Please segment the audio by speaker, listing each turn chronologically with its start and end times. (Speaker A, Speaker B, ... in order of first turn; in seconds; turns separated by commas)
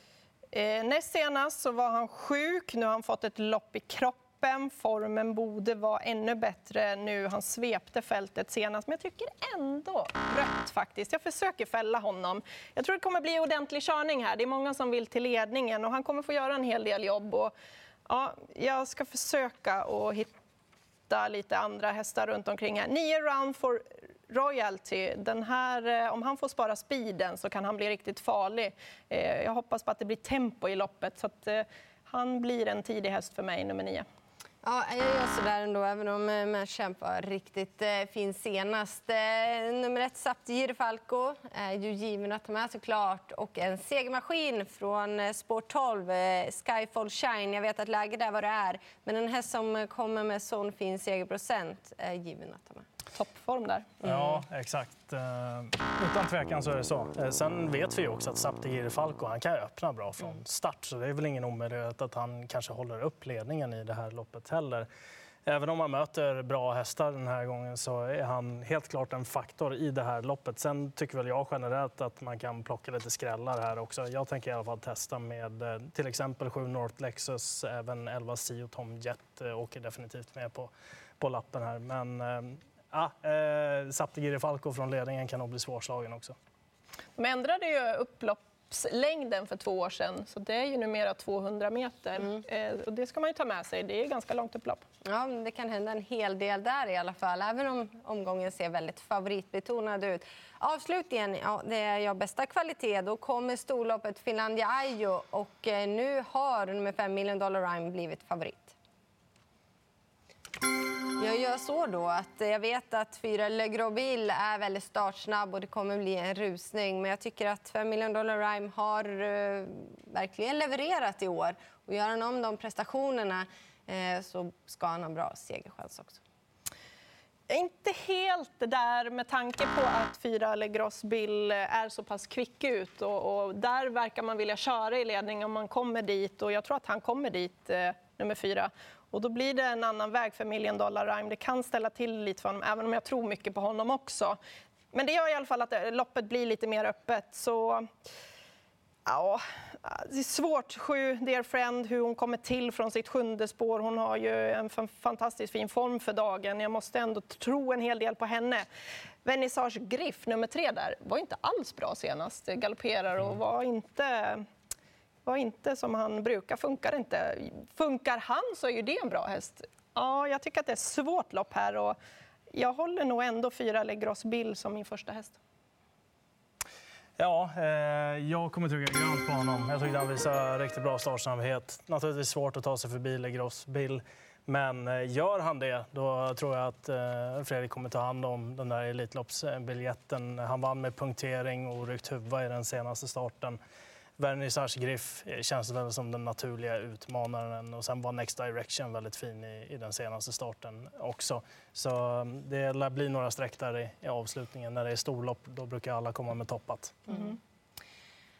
Speaker A: 0.5-17.5, Speaker A: 18.1-20.3, Speaker A: 21.1-34.1, Speaker B: 34.6-52.9, Speaker A: 53.1-54.0, Speaker C: 54.0-64.9, Speaker C: 65.5-86.3, Speaker A: 87.2-94.8, Speaker B: 95.1-108.8, Speaker B: 111.2-126.2, Speaker A: 127.5-144.4, Speaker A: 144.9-147.9, Speaker A: 149.1-158.7, Speaker A: 159.2-164.4, Speaker A: 165.3-172.0, Speaker A: 172.5-175.4, Speaker C: 177.2-193.6, Speaker C: 194.2-207.2